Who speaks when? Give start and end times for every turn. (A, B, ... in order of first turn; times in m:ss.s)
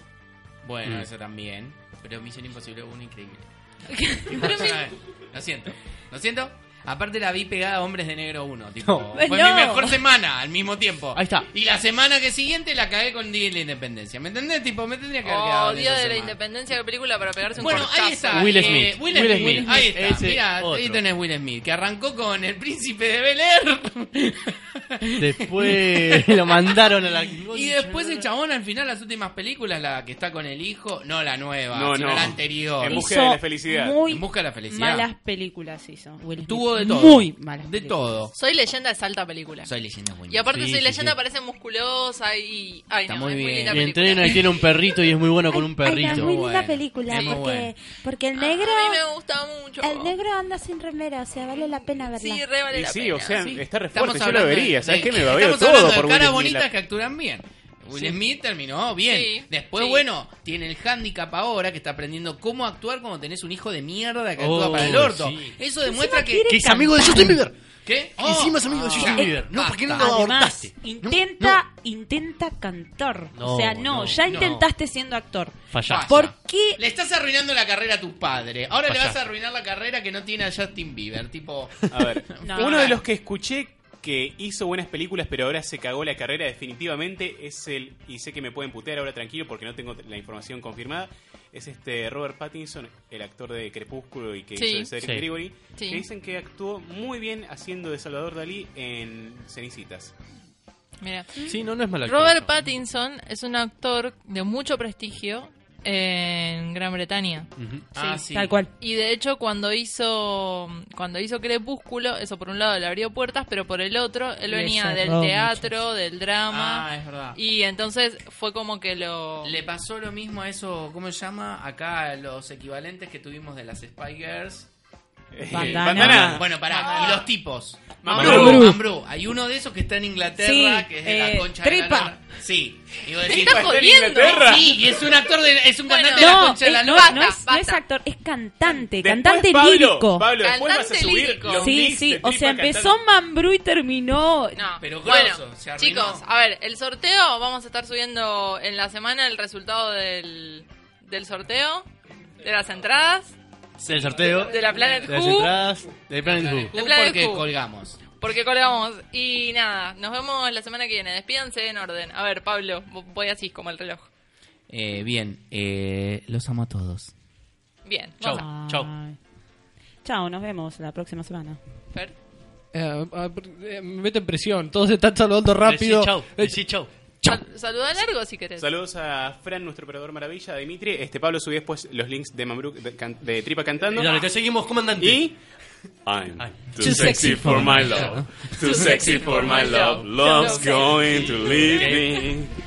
0:00.6-0:16.4 A
0:04.3-0:04.7 B
0:08.8-0:09.3 C
0:09.2-0:09.9 D
0:11.1-0:11.5 C
0:15.2-0:18.8 B
0:17.5-0:33.1 A
0:18.3-0:21.0 C
0:25.2-0:28.3 C
0:31.7-0:34.0 E
0:32.8-0:38.3 D
0:34.1-0:35.1 A
0:36.4-0:38.3 A
0:38.4-0:39.7 B
0:39.6-0:41.0 A
0:40.3-0:44.4 B
0:40.5-0:41.2 C
0:43.1-0:43.9 A
0:43.7-0:46.3 C
0:45.5-0:49.0 F
0:46.0-0:47.7 A
0:47.1-0:47.4 B
0:48.4-0:50.2 B
0:49.8-0:52.4 F
0:51.4-0:53.5 B
0:52.7-0:56.7 E
0:53.4-1:06.6 A
0:59.1-1:00.0 B
1:04.4-1:05.6 C
1:06.0-1:07.3 D
1:06.4-1:07.5 C
1:07.8-1:10.3 A
1:08.2-1:11.6 C
1:09.0-1:16.8 D
1:13.3-1:14.7 C
1:14.3-1:14.6 A
1:15.7-1:16.2 C
1:15.9-1:22.9 A
1:18.9-1:19.2 C
1:21.9-1:40.1 E
1:22.4-1:23.0 D
1:34.6-1:34.9 B
1:35.0-1:35.3 C
1:35.8-1:36.0 B
1:41.0-1:41.5 B
1:41.4-1:42.6 C
1:42.0-1:47.5 B
1:47.6-1:47.9 C
1:47.9-1:48.6 A
1:48.0-1:48.7 D
1:48.8-1:59.6 B
1:54.5-1:55.7 D
1:56.5-1:57.4 A
1:59.4-2:04.7 A
2:05.3-2:06.5 E
2:05.5-2:06.4 D
2:05.5-2:17.3 A
2:06.6-2:07.3 B
2:08.0-2:08.7 E
2:08.2-2:08.6 C
2:08.2-2:08.8 D
2:10.4-2:12.2 D
2:13.2-2:14.8 B
2:13.3-2:14.7 E
2:15.9-2:17.8 B
2:16.2-2:20.3 D
2:18.9-2:23.0 E
2:20.4-2:21.8 B
2:21.5-2:24.6 D
2:24.6-2:31.9 B
2:24.8-2:26.2 A
2:32.4-2:33.4 B
2:33.8-2:34.4 A
2:33.8-2:36.7 C
2:34.2-2:35.6 B
2:36.2-2:38.0 A
2:36.6-2:37.5 B
2:38.2-2:44.1 B
2:44.7-2:47.1 A
2:47.8-2:48.4 B
2:48.2-2:48.9 C
2:48.3-2:49.2 D
2:50.0-2:51.6 D
2:52.7-2:56.6 G
2:55.6-2:56.9 C
2:57.2-2:58.7 B
2:58.6-3:04.3 E
3:03.9-3:05.3 C
3:05.0-3:05.4 E
3:06.1-3:12.5 E
3:06.4-3:08.2 C
3:06.9-3:07.5 G
3:08.6-3:11.1 B
3:09.8-3:12.3 C